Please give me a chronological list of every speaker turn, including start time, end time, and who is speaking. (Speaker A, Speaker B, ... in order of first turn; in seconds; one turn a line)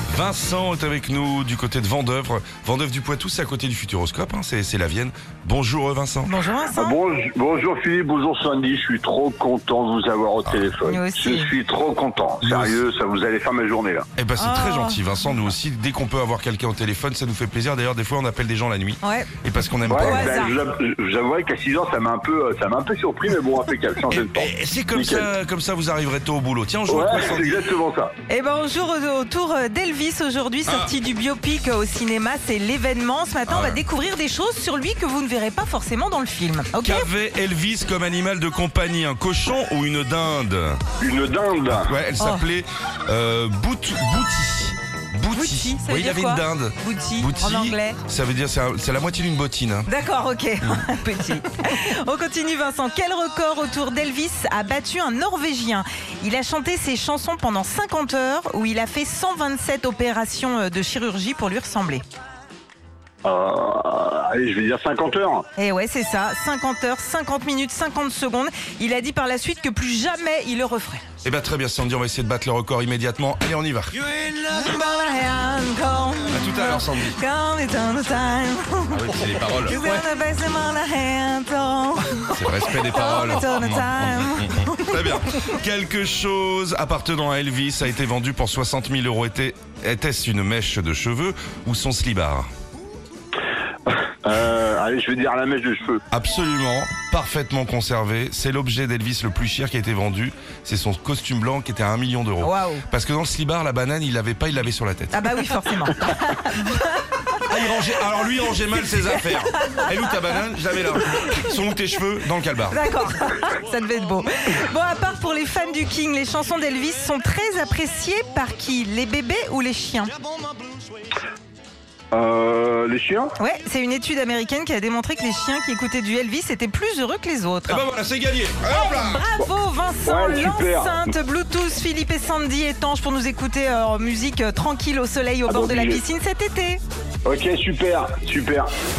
Speaker A: 0.1-6.4
Speaker B: 6.3-7.0
Speaker C: 6.8-14.1
Speaker B: 10.8-11.5
Speaker A: 12.4-12.8
Speaker A: 14.2-20.3
Speaker B: 14.4-15.1
Speaker B: 19.0-19.3
Speaker C: 19.9-25.3
Speaker B: 19.9-20.5
Speaker A: 24.1-27.8
Speaker C: 26.9-28.1
Speaker B: 28.3-37.1
Speaker A: 30.6-30.9
Speaker A: 33.5-33.8
Speaker A: 36.8-40.8
Speaker C: 41.0-41.9
Speaker A: 41.8-49.9
Speaker B: 42.2-42.5
Speaker B: 45.3-48.0
Speaker B: 49.9-62.0
Speaker C: 63.2-65.5
Speaker B: 65.6-71.0
Speaker A: 71.2-74.0
Speaker B: 74.1-85.5
Speaker A: 76.3-77.2
Speaker A: 78.9-79.8
Speaker A: 82.3-92.5
Speaker C: 93.9-96.0
Speaker A: 96.1-105.3
Speaker B: 102.4-102.8
Speaker B: 105.1-107.4
Speaker A: 107.5-112.8
Speaker B: 109.5-109.9
Speaker B: 112.7-120.1
Speaker C: 122.1-123.3
Speaker B: 123.4-127.8
Speaker A: 127.7-129.2
Speaker B: 128.7-136.8
Speaker C: 130.1-131.1
Speaker C: 135.5-136.0
Speaker C: 137.2-138.7